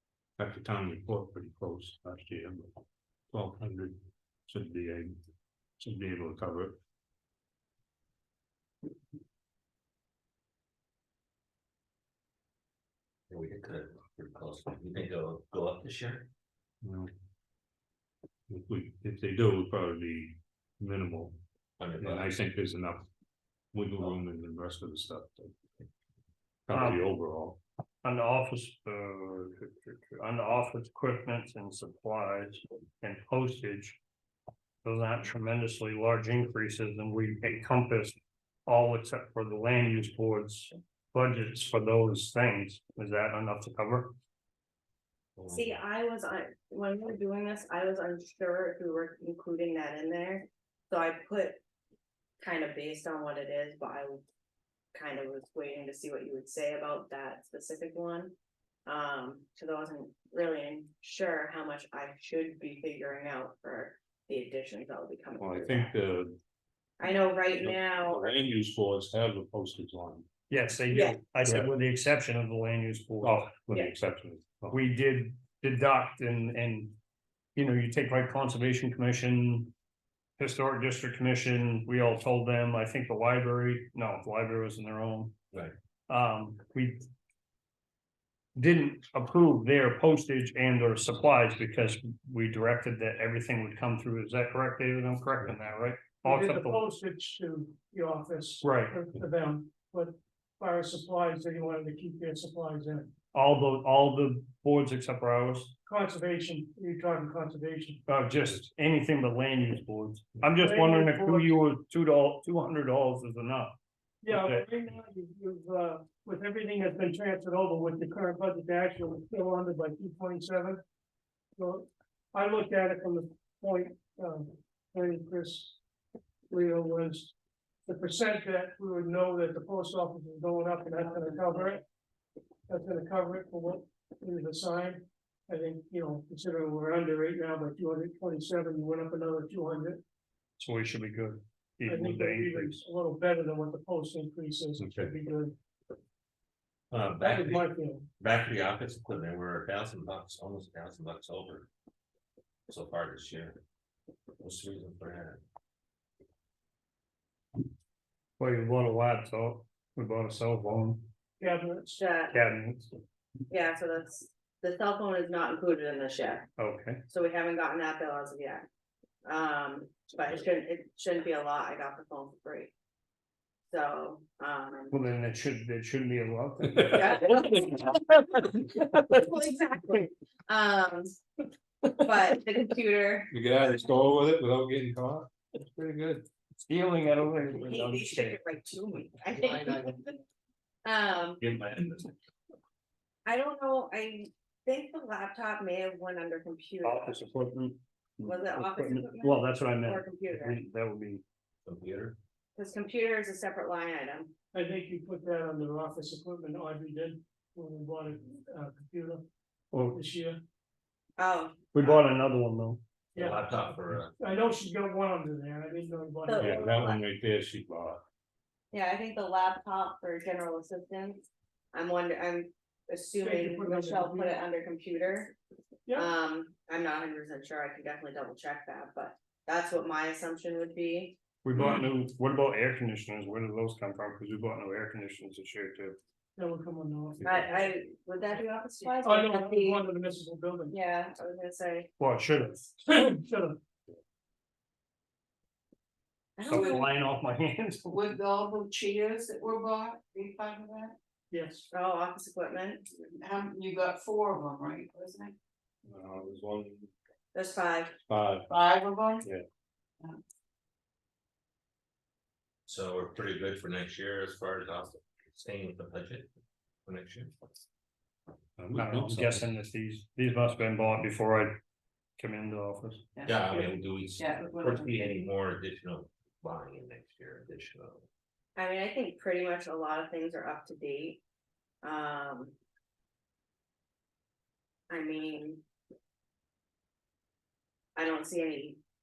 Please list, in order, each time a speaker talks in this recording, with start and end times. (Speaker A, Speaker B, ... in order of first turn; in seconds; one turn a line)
Speaker A: 0.4-2.7
Speaker A: 3.3-5.2
Speaker A: 5.8-6.8
Speaker B: 13.3-16.3
Speaker A: 16.8-17.1
Speaker A: 18.5-21.4
Speaker B: 21.8-22.3
Speaker A: 22.0-23.1
Speaker A: 23.7-25.6
Speaker A: 26.7-27.6
Speaker C: 26.7-27.0
Speaker C: 28.0-34.0
Speaker C: 34.8-44.1
Speaker B: 45.4-45.7
Speaker D: 45.5-51.6
Speaker D: 52.4-54.2
Speaker D: 54.9-58.3
Speaker D: 58.9-66.0
Speaker A: 65.4-66.4
Speaker D: 67.0-68.2
Speaker A: 67.6-70.3
Speaker C: 70.5-73.6
Speaker D: 70.9-71.2
Speaker A: 71.4-71.7
Speaker A: 73.2-74.8
Speaker C: 74.7-77.0
Speaker C: 77.5-79.7
Speaker C: 80.4-85.3
Speaker C: 86.1-87.0
Speaker C: 88.5-96.8
Speaker E: 96.2-103.1
Speaker C: 98.6-98.9
Speaker C: 103.3-105.7
Speaker E: 105.9-108.0
Speaker C: 108.1-113.8
Speaker E: 110.5-111.5
Speaker E: 114.2-120.8
Speaker C: 114.3-114.6
Speaker E: 121.6-125.8
Speaker E: 126.5-127.3
Speaker E: 127.8-131.8
Speaker E: 132.7-140.0
Speaker C: 140.6-142.8
Speaker E: 141.8-145.6
Speaker A: 144.8-145.1
Speaker B: 146.9-151.7
Speaker E: 147.2-148.1
Speaker B: 152.7-153.6
Speaker B: 154.4-155.4
Speaker C: 158.4-161.1
Speaker E: 161.4-162.0
Speaker D: 162.0-162.3
Speaker C: 162.3-162.9
Speaker D: 163.5-166.5
Speaker C: 166.6-167.0
Speaker D: 167.1-168.6
Speaker D: 169.2-172.7
Speaker D: 173.7-175.0
Speaker C: 174.9-178.0
Speaker D: 176.9-177.9
Speaker D: 179.1-181.1
Speaker D: 182.0-183.3
Speaker A: 183.3-186.2
Speaker C: 186.7-188.4
Speaker D: 187.5-190.2
Speaker B: 189.4-189.8
Speaker D: 190.8-191.4
Speaker B: 191.4-192.1
Speaker D: 193.2-197.2
Speaker C: 196.8-201.2
Speaker D: 198.2-200.6
Speaker B: 201.6-202.2
Speaker D: 202.6-204.3
Speaker E: 204.5-209.2
Speaker E: 209.9-210.4
Speaker D: 211.2-212.1
Speaker C: 211.7-212.8
Speaker B: 213.1-214.1
Speaker E: 213.1-216.6
Speaker D: 216.2-217.0
Speaker A: 216.4-218.0
Speaker D: 218.7-225.3
Speaker E: 223.2-224.3
Speaker D: 225.9-231.2
Speaker C: 231.4-236.0
Speaker E: 236.4-237.8
Speaker D: 237.2-239.8
Speaker E: 239.0-240.7
Speaker D: 240.7-241.9
Speaker C: 242.0-242.7
Speaker E: 242.8-243.6
Speaker D: 246.4-246.9
Speaker C: 246.5-248.0
Speaker F: 246.5-246.8
Speaker F: 247.9-250.9
Speaker E: 251.3-251.7
Speaker D: 251.7-252.8
Speaker F: 253.0-255.3
Speaker A: 255.8-256.9
Speaker D: 257.3-257.9
Speaker A: 258.1-258.5
Speaker F: 258.5-259.2
Speaker B: 262.6-266.3
Speaker B: 266.9-267.4
Speaker A: 268.6-269.4
Speaker C: 268.7-271.6
Speaker C: 272.2-273.0
Speaker F: 273.1-275.2
Speaker B: 273.2-278.1
Speaker D: 278.6-281.2
Speaker D: 281.8-282.5
Speaker D: 284.9-285.6
Speaker D: 287.9-288.8